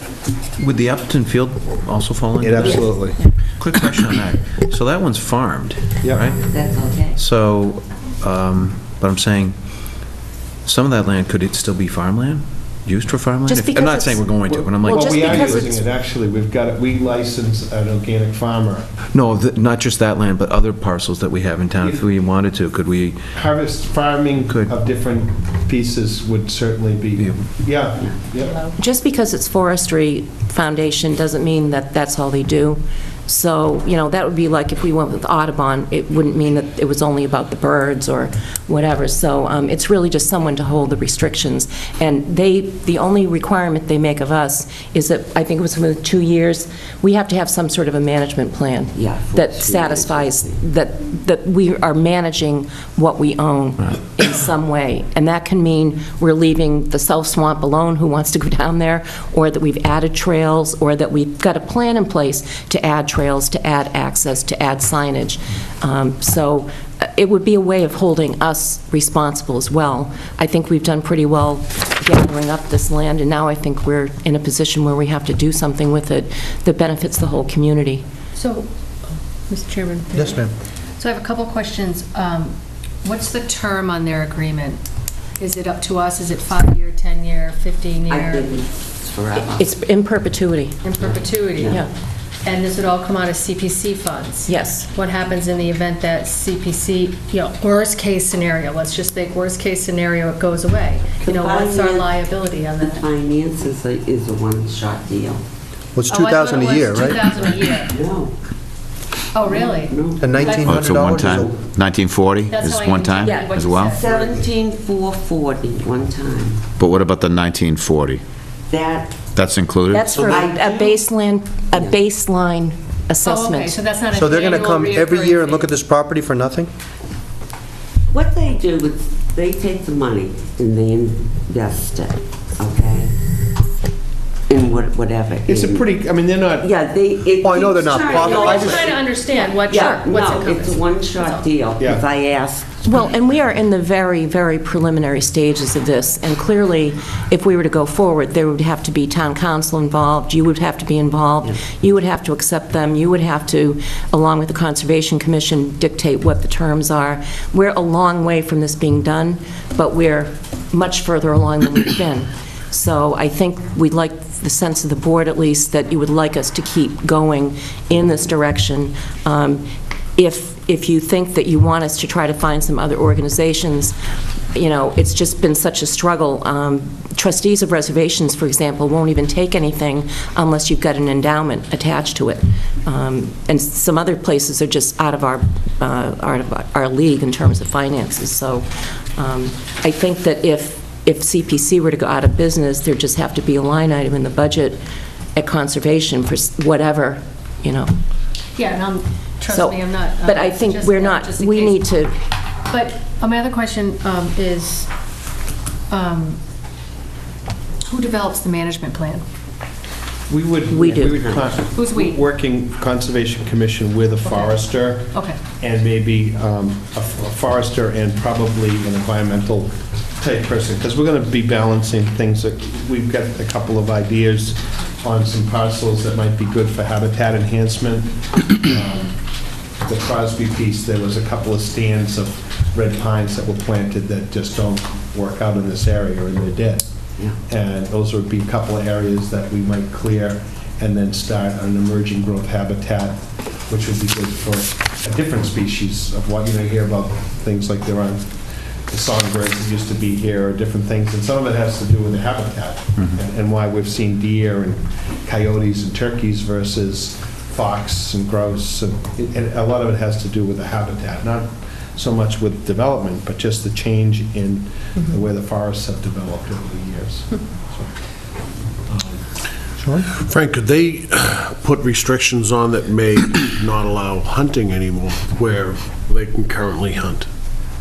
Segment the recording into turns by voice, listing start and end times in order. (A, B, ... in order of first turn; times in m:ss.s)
0:00.6-0:06.4 A
0:02.4-0:03.2 B
0:06.0-0:06.3 B
0:06.5-0:07.2 C
0:07.2-0:10.1 A
0:10.6-0:15.7 A
0:13.5-0:14.2 D
0:14.4-0:18.8 B
0:14.8-0:15.8 D
0:19.1-0:23.2 A
0:23.3-0:28.6 B
0:27.2-0:27.4 A
0:28.8-1:18.0 D
0:49.0-0:50.6 C
1:18.4-1:18.7 E
1:19.5-1:20.4 E
1:20.2-1:20.5 F
1:21.0-1:24.8 E
1:25.4-1:28.6 E
1:28.1-1:29.7 C
1:29.4-1:30.9 D
1:30.8-1:31.8 E
1:31.0-1:31.8 C
1:32.4-1:43.1 E
1:34.5-1:34.9 D
1:41.2-1:45.4 C
1:45.9-1:47.3 F
1:46.1-1:48.0 E
1:47.9-1:48.4 C
1:49.3-1:51.1 E
1:49.4-1:50.7 C
1:50.2-1:51.6 F
1:50.7-1:53.9 G
1:52.5-1:54.4 E
1:53.2-1:53.6 D
1:53.9-1:56.6 C
1:56.8-1:58.2 G
1:58.7-1:59.2 C
1:59.4-2:00.1 G
1:59.9-2:03.8 D
2:00.2-2:01.0 C
2:03.2-2:05.7 E
2:04.1-2:06.7 F
2:08.1-2:13.1 C
2:14.5-2:15.9 C
2:15.5-2:16.7 B
2:16.6-2:22.9 C
2:17.4-2:19.0 F
2:18.2-2:21.5 E
2:19.7-2:20.1 D
2:21.8-2:22.1 B
2:22.8-2:49.6 D
2:50.2-2:54.0 D
2:54.5-3:08.7 D
3:09.2-3:14.8 D
3:15.4-3:17.9 D
3:18.6-3:21.9 E
3:19.5-3:22.1 D
3:22.7-3:24.9 E
3:25.9-3:26.4 E
3:27.9-3:29.2 E
3:30.3-3:49.2 B
3:30.7-3:31.2 D
3:30.9-3:31.6 C
3:31.7-3:32.2 E
3:34.2-3:35.4 E
3:49.8-3:56.8 B
3:57.4-4:28.0 B
4:28.9-4:29.2 B
4:29.8-4:30.1 F
4:30.1-4:37.3 H